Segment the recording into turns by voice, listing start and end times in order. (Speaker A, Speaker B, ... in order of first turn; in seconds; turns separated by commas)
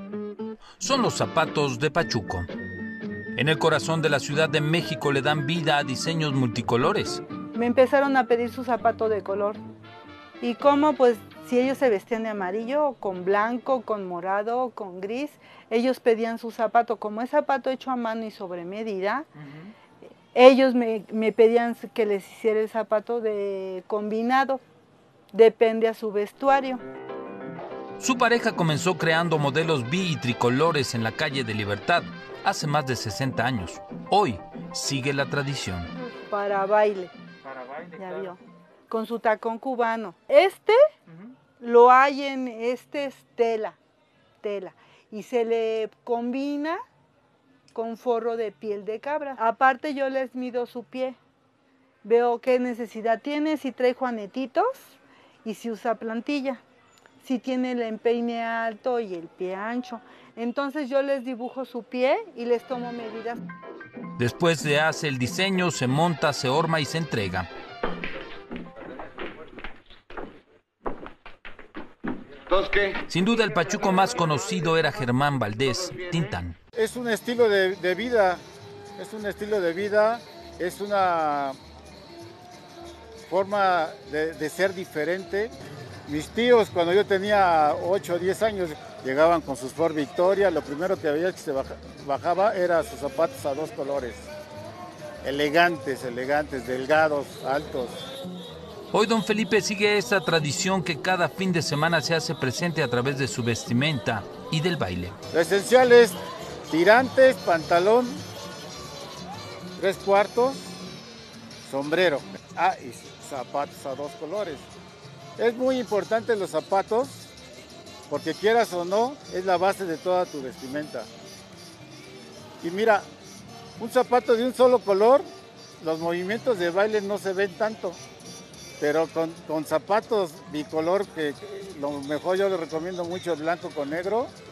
Speaker A: 0.8-2.5, Speaker A: 3.4-7.2, Speaker B: 7.5-9.6, Speaker B: 10.4-19.3, Speaker B: 20.3-24.6, Speaker B: 25.3-26.8, Speaker A: 28.0-35.9, Speaker B: 36.0-37.1, Speaker B: 37.7-40.8, Speaker B: 41.6-43.8, Speaker B: 44.4-46.8, Speaker B: 47.7-51.2, Speaker B: 52.0-56.6, Speaker B: 57.2-63.4, Speaker A: 64.2-67.5, Speaker A: 72.8-76.6, Speaker C: 76.8-78.4, Speaker C: 79.0-81.6, Speaker C: 83.3-85.5, Speaker C: 86.1-94.3, Speaker C: 95.2-98.0, Speaker A: 98.9-105.2, Speaker C: 105.3-108.2, Speaker C: 109.8-110.7, Speaker C: 111.6-114.7, Speaker C: 115.4-117.3, Speaker C: 118.1-121.1, Speaker C: 122.6-123.1, Speaker C: 123.8-125.3, Speaker C: 125.8-128.0, Speaker C: 128.8-134.3